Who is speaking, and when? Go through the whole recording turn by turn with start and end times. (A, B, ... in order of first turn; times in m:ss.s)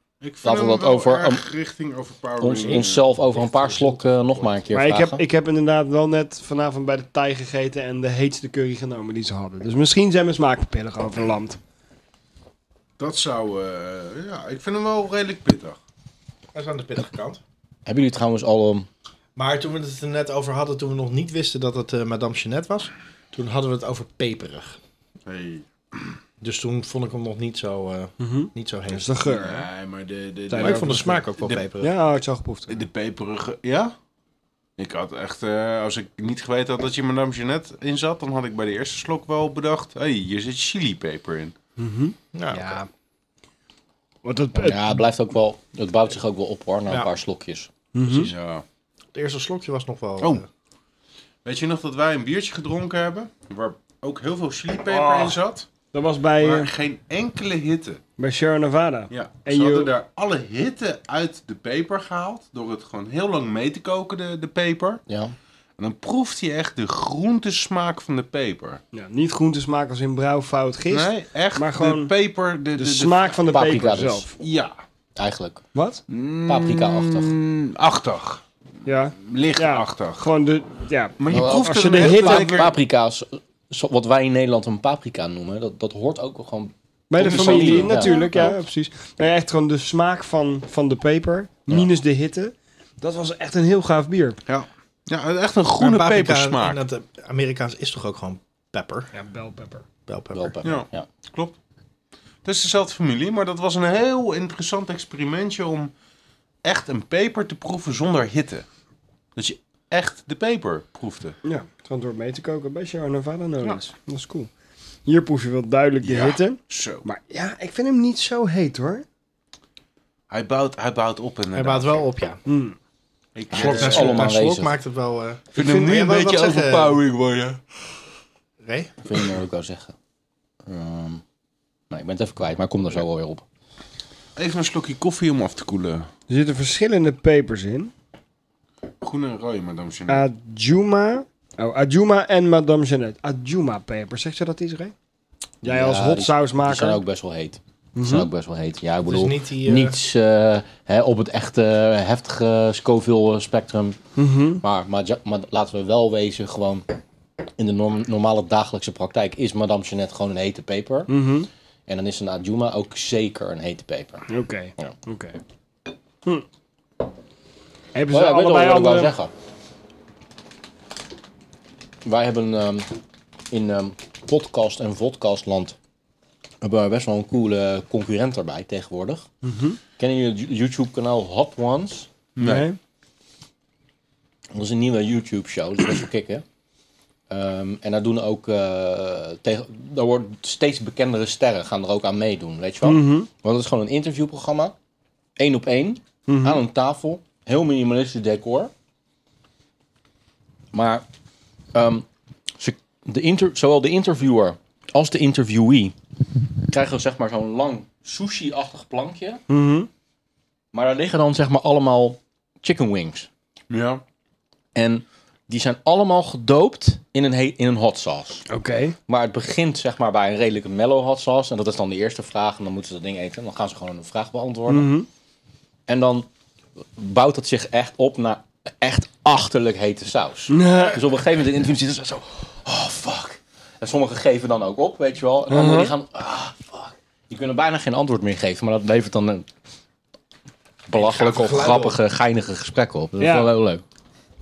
0:00.2-0:03.0 A
0:00.4-0:01.4 B
0:02.4-0:05.2 B
0:02.6-0:04.0 C
0:04.7-0:11.6 D
0:13.0-0:15.8 A
0:16.5-0:17.4 C
0:17.8-0:18.9 B
0:19.4-0:24.8 C
0:25.2-0:26.1 A
0:26.4-0:29.1 C
0:28.2-0:29.7 D
0:29.2-0:31.7 A
0:30.5-0:31.2 D
0:30.6-0:31.9 C
0:31.8-0:32.8 D
0:32.7-0:33.9 A
0:34.8-0:41.5 A
0:41.8-0:42.9 D
0:42.3-0:42.8 C
0:44.2-0:45.0 D
0:44.5-0:47.7 B
0:47.9-0:48.3 D
0:48.0-0:48.3 C
0:48.1-0:48.6 A
0:49.1-0:50.4 C
0:51.4-0:55.7 A
0:54.9-0:55.4 D
0:55.9-0:56.7 D
0:56.4-0:58.0 A
0:58.2-0:59.9 D
0:59.1-1:05.0 A
1:05.1-1:05.3 B
1:05.8-1:08.8 A
1:08.9-1:12.1 D
1:10.9-1:13.5 A
1:12.8-1:14.3 D
1:13.5-1:14.3 B
1:14.4-1:14.7 A
1:15.2-1:15.6 B
1:15.7-1:16.0 D
1:16.1-1:18.4 A
1:16.4-1:17.3 B
1:18.8-1:22.7 D
1:19.2-1:20.2 A
1:21.2-1:22.7 A
1:21.3-1:28.1 B
1:27.1-1:34.4 D
1:27.2-1:28.5 A
1:34.5-1:36.8 A
1:35.8-1:39.1 C
1:39.1-1:39.8 D
1:40.1-1:40.6 C
1:40.3-1:41.0 B
1:40.6-1:41.5 A
1:42.4-1:45.9 A
1:46.6-1:48.6 A
1:49.4-1:51.4 A
1:51.4-1:54.5 D
1:55.0-1:59.0 D
1:56.0-1:57.0 A
2:00.3-2:02.0 A
2:01.5-2:02.4 C
2:02.5-2:02.8 D
2:03.3-2:04.3 A
2:03.5-2:04.8 B
2:03.5-2:07.0 C
2:05.5-2:07.6 A
2:08.6-2:08.9 C
2:09.0-2:09.9 B
2:10.7-2:11.2 B
2:11.9-2:13.4 B
2:14.4-2:16.1 A
2:16.3-2:17.9 D
2:19.0-2:20.2 A
2:20.1-2:24.9 D
2:25.6-2:27.0 D
2:25.6-2:34.0 B
2:27.9-2:28.3 D
2:29.0-2:30.0 C
2:34.2-2:34.6 D
2:34.6-2:36.8 B
2:37.6-2:41.1 B
2:41.1-2:41.5 D
2:41.9-2:44.3 B
2:44.3-2:45.4 D
2:47.9-2:49.1 D
2:48.1-2:49.3 B
2:52.0-2:52.9 B
2:53.5-2:55.8 B
2:56.6-2:59.2 B
2:59.4-2:59.8 D
3:00.0-3:02.1 B
3:02.4-3:02.7 A
3:02.4-3:02.8 D
3:04.5-3:06.4 B
3:07.3-3:14.7 B
3:12.8-3:13.3 D
3:15.4-3:18.7 B
3:16.3-3:16.6 D
3:20.7-3:21.0 B
3:21.7-3:22.1 B
3:22.6-3:25.9 B
3:26.7-3:29.4 B
3:29.5-3:29.9 D
3:30.7-3:33.3 B
3:33.7-3:34.0 A
3:34.7-3:38.4 B
3:38.5-3:39.0 D
3:39.1-3:44.9 B
3:44.7-3:45.1 D
3:45.9-3:46.3 B
3:46.9-3:59.5 B
3:50.5-3:51.0 D
3:55.5-3:55.9 D
4:00.9-4:03.8 B
4:00.9-4:02.0 C
4:03.2-4:03.5 D